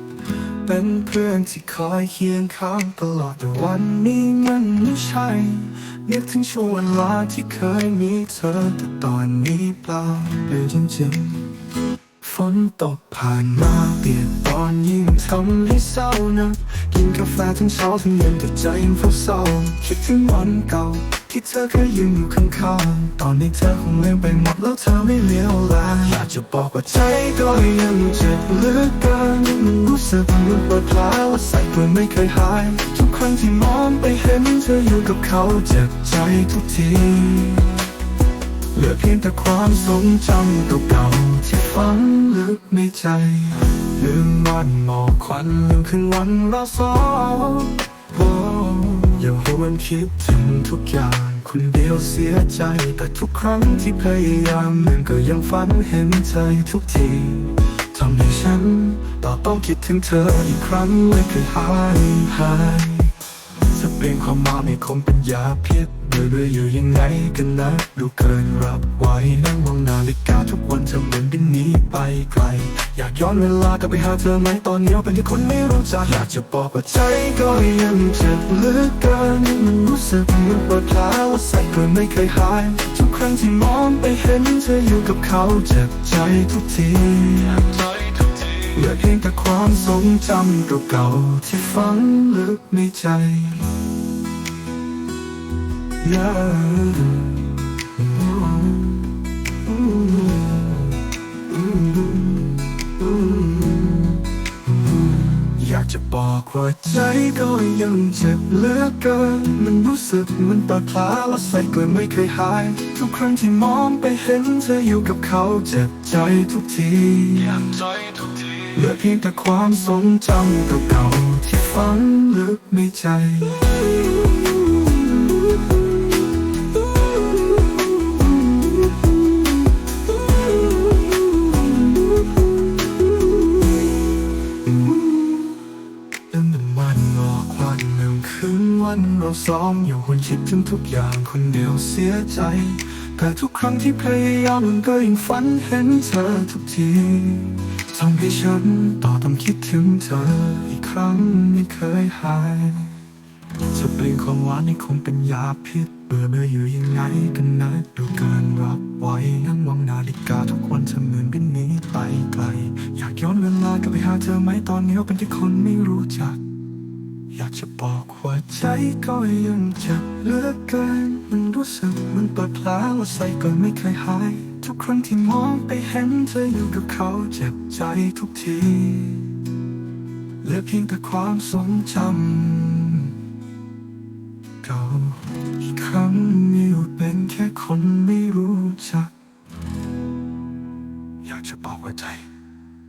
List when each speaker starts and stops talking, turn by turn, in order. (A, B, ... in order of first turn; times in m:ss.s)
0:00.6-0:11.6 A
0:12.2-0:37.9 A
0:38.7-1:33.9 A
1:36.0-1:41.0 A
1:41.5-1:44.3 A
1:45.0-2:05.0 A
2:10.7-2:11.3 A
2:14.6-2:15.6 A
2:16.3-2:33.0 A
2:33.7-2:46.4 A
2:47.3-2:59.5 A
3:00.4-3:03.2 A
3:04.6-3:09.1 A
3:11.2-3:12.3 A